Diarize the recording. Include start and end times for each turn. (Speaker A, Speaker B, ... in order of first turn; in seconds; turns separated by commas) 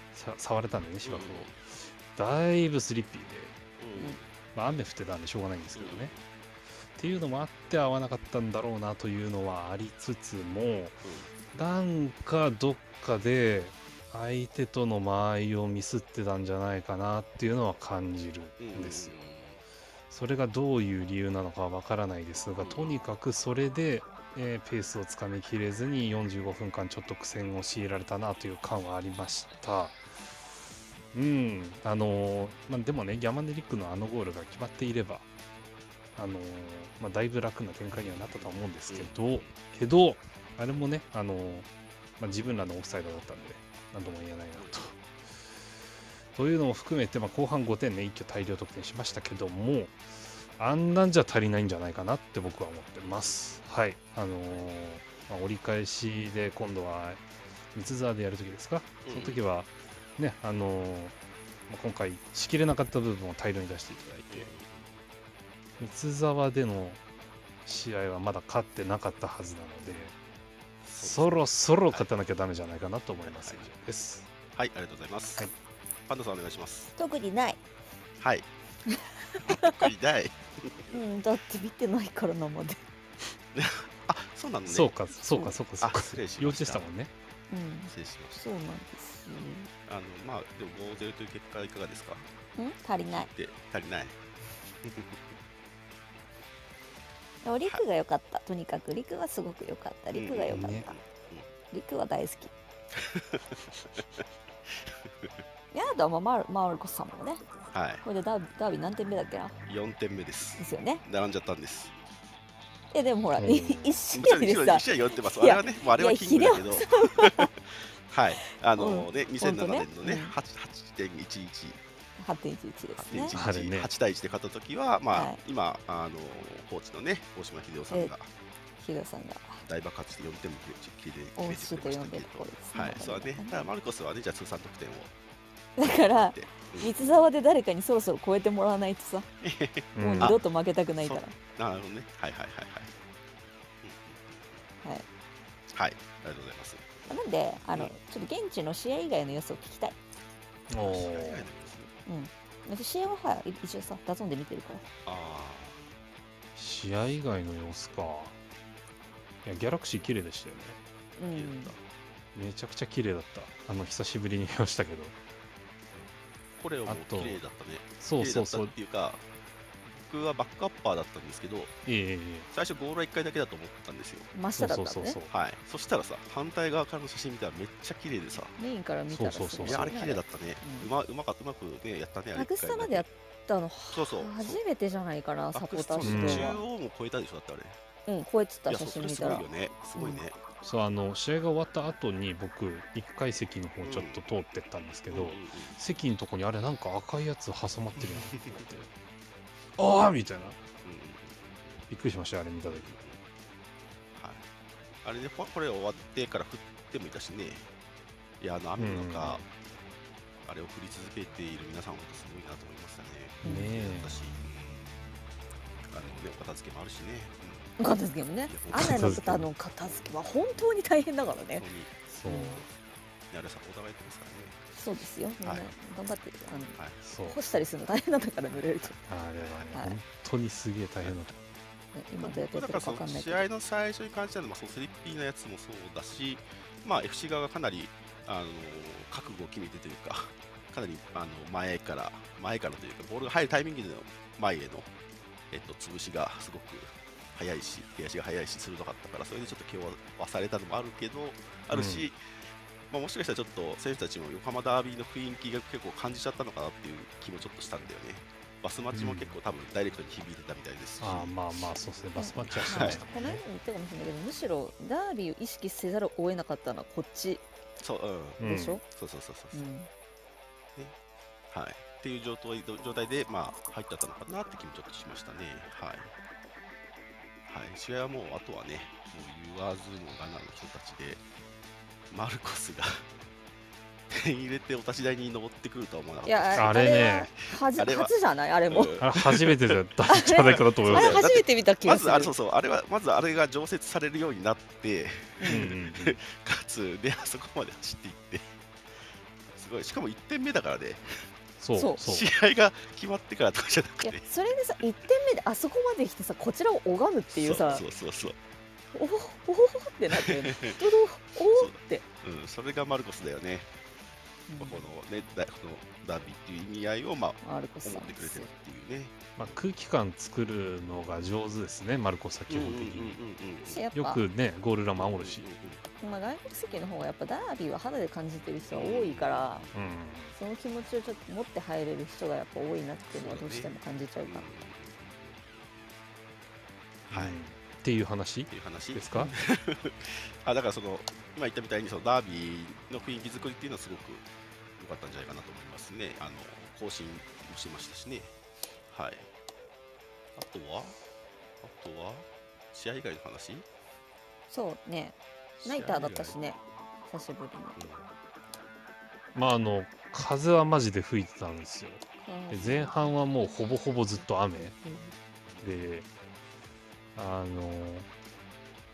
Speaker A: 0.1-3.6, Speaker B: 1.0-1.6, Speaker B: 3.8-4.3, Speaker A: 4.5-6.1, Speaker B: 5.8-6.2, Speaker A: 7.0-19.1, Speaker B: 11.0-11.3, Speaker B: 18.6-19.6, Speaker A: 20.1-30.0, Speaker B: 22.6-23.0, Speaker A: 31.1-35.3, Speaker A: 36.2-41.7, Speaker B: 38.0-39.5, Speaker A: 42.2-45.0, Speaker A: 46.4-50.0, Speaker A: 50.6-57.2, Speaker B: 53.0-53.6, Speaker A: 57.7-61.1, Speaker B: 59.0-59.4, Speaker A: 61.7-64.5, Speaker B: 64.3-65.0, Speaker A: 65.8-67.0, Speaker A: 67.7-70.2, Speaker B: 70.9-72.1, Speaker A: 70.9-74.3, Speaker B: 73.3-73.7, Speaker B: 74.5-75.5, Speaker B: 76.1-76.9, Speaker C: 77.0-77.6, Speaker B: 78.2-78.5, Speaker C: 78.9-79.8, Speaker B: 79.4-81.0, Speaker C: 80.9-82.8, Speaker B: 83.5-84.9, Speaker A: 84.7-87.1, Speaker C: 85.2-85.5, Speaker B: 85.8-86.9, Speaker C: 87.5-89.7, Speaker B: 87.9-88.5, Speaker B: 89.9-92.3, Speaker C: 92.6-93.3, Speaker B: 93.1-94.2, Speaker B: 94.8-95.2, Speaker C: 97.4-101.0, Speaker B: 100.1-101.5, Speaker A: 100.5-100.9, Speaker C: 101.7-102.5, Speaker B: 102.9-105.4, Speaker C: 105.7-107.4, Speaker B: 107.7-108.0, Speaker C: 108.0-109.6, Speaker B: 109.7-111.9, Speaker C: 110.6-111.0, Speaker C: 112.9-117.5, Speaker A: 113.4-114.0, Speaker B: 114.1-121.8, Speaker C: 118.8-120.3, Speaker C: 122.2-123.3, Speaker B: 123.0-128.3, Speaker A: 123.3-123.9, Speaker C: 125.1-125.4, Speaker C: 128.8-129.6, Speaker B: 129.6-135.1, Speaker C: 131.4-133.7, Speaker C: 135.8-139.3, Speaker B: 135.8-137.1, Speaker B: 139.4-140.4, Speaker A: 140.0-140.4, Speaker C: 140.0-141.3, Speaker B: 141.0-142.9, Speaker B: 143.8-144.6, Speaker B: 145.7-147.1, Speaker C: 147.1-150.0, Speaker A: 150.7-151.5, Speaker B: 150.8-151.9, Speaker C: 152.1-154.9, Speaker B: 155.1-155.8, Speaker A: 156.6-158.4, Speaker A: 159.4-160.8, Speaker C: 161.2-161.7, Speaker B: 161.3-161.8, Speaker A: 162.3-165.2, Speaker B: 165.9-169.2, Speaker A: 166.9-167.4, Speaker A: 168.0-168.7, Speaker B: 169.8-171.7, Speaker A: 171.9-172.5, Speaker B: 172.5-174.3, Speaker C: 174.3-175.2, Speaker A: 174.6-175.3, Speaker B: 175.3-178.6, Speaker C: 178.6-180.9, Speaker A: 179.1-180.0, Speaker B: 179.6-183.1, Speaker C: 182.3-186.6, Speaker B: 183.9-184.6, Speaker B: 185.5-187.8, Speaker A: 186.0-186.5, Speaker C: 188.1-190.2, Speaker B: 188.7-190.4, Speaker A: 190.6-198.9, Speaker B: 193.8-194.2, Speaker B: 195.1-195.8, Speaker B: 198.0-198.7, Speaker A: 199.8-200.6, Speaker B: 200.8-201.9, Speaker A: 201.9-202.9, Speaker B: 202.7-203.2, Speaker B: 204.1-204.5, Speaker B: 205.0-207.7, Speaker B: 208.4-209.4, Speaker A: 208.8-209.5, Speaker B: 210.4-215.0, Speaker C: 213.4-213.7, Speaker A: 213.4-214.2, Speaker B: 215.9-217.8, Speaker C: 217.8-221.7, Speaker B: 218.5-220.7, Speaker A: 218.7-219.5, Speaker B: 221.2-221.9, Speaker A: 222.1-222.7, Speaker C: 222.3-222.6, Speaker B: 223.3-224.7, Speaker C: 224.8-229.0, Speaker B: 225.4-225.7, Speaker A: 227.0-227.4, Speaker A: 229.1-231.4, Speaker C: 231.9-233.5, Speaker B: 232.2-244.9, Speaker B: 245.5-252.2, Speaker A: 251.7-252.1, Speaker B: 252.9-261.4, Speaker A: 258.9-259.3, Speaker A: 261.0-263.4, Speaker C: 262.2-267.4, Speaker B: 262.5-263.0, Speaker B: 267.8-269.6, Speaker A: 268.4-268.8, Speaker C: 268.4-268.8, Speaker C: 269.5-269.9, Speaker B: 271.5-276.1, Speaker B: 277.5-281.2, Speaker B: 282.1-283.0, Speaker B: 284.1-288.1, Speaker C: 286.2-289.0, Speaker A: 286.6-287.3, Speaker B: 288.7-289.8, Speaker A: 289.0-291.3, Speaker C: 290.1-292.3, Speaker B: 290.4-298.5, Speaker C: 295.4-295.7, Speaker A: 295.5-296.2, Speaker B: 299.5-301.1, Speaker A: 301.6-302.3, Speaker B: 302.0-304.3, Speaker C: 304.0-307.9, Speaker B: 307.3-308.4, Speaker C: 308.9-312.1, Speaker B: 310.1-310.8, Speaker B: 311.5-313.7, Speaker C: 314.5-314.9, Speaker B: 314.6-319.6, Speaker C: 317.4-318.5, Speaker A: 319.4-323.2, Speaker B: 322.5-323.8, Speaker C: 323.6-324.2, Speaker A: 323.9-325.4, Speaker B: 325.0-325.8, Speaker C: 326.0-329.7, Speaker B: 328.7-329.9, Speaker A: 329.7-330.3, Speaker C: 330.4-334.5, Speaker B: 333.1-333.8, Speaker B: 334.3-335.8, Speaker B: 337.1-337.4, Speaker A: 337.1-339.3, Speaker B: 338.5-344.3, Speaker B: 344.8-348.3, Speaker B: 348.9-349.3, Speaker B: 350.4-351.0, Speaker B: 351.6-353.7, Speaker C: 354.5-356.6, Speaker B: 355.6-356.4, Speaker C: 357.1-357.8, Speaker B: 357.8-358.1, Speaker A: 359.4-364.8, Speaker C: 362.2-365.1, Speaker B: 365.5-365.8, Speaker A: 365.6-366.1, Speaker A: 367.1-368.1